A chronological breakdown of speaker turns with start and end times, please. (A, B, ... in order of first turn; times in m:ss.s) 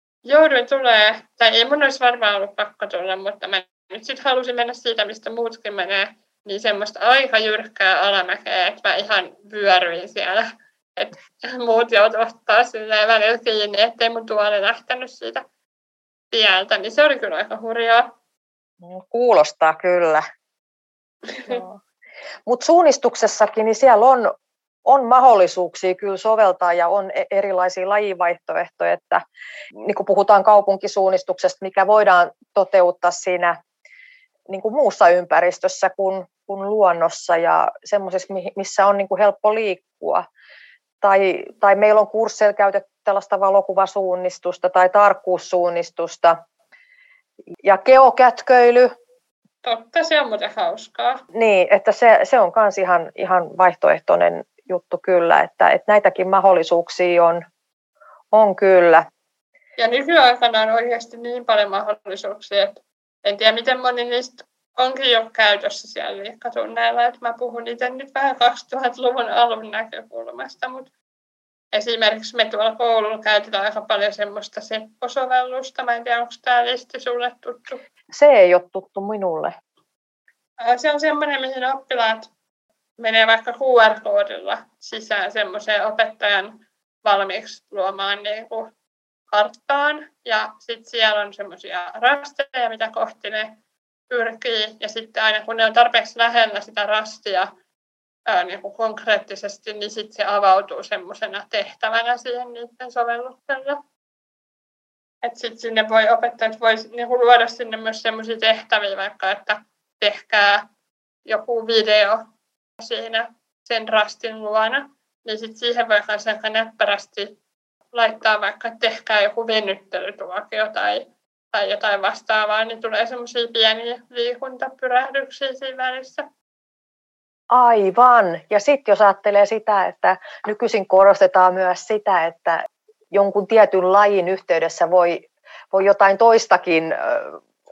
0:00.2-0:15.4 A
0:16.3-0:18.1 A
0:18.8-0:20.2 B
0:21.4-0:21.8 B
0:22.4-0:24.3 B
0:24.8-0:29.2 B
0:29.8-0:33.5 B
0:34.5-0:40.2 B
0:41.0-0:46.4 B
0:47.6-0:48.9 B
0:49.6-0:51.2 A
0:51.3-0:57.4 B
0:58.3-0:59.0 B
0:59.8-1:10.9 A
1:11.7-1:17.8 A
1:18.1-1:19.5 B
1:20.6-1:22.3 A
1:23.0-1:28.7 A
1:29.3-1:33.6 A
1:34.1-1:37.5 A
1:38.3-1:43.8 A
1:45.2-1:50.6 A
1:51.2-1:52.2 A
1:52.8-1:57.4 A
1:57.9-2:06.3 A
2:07.5-2:12.6 B
2:13.1-2:17.4 B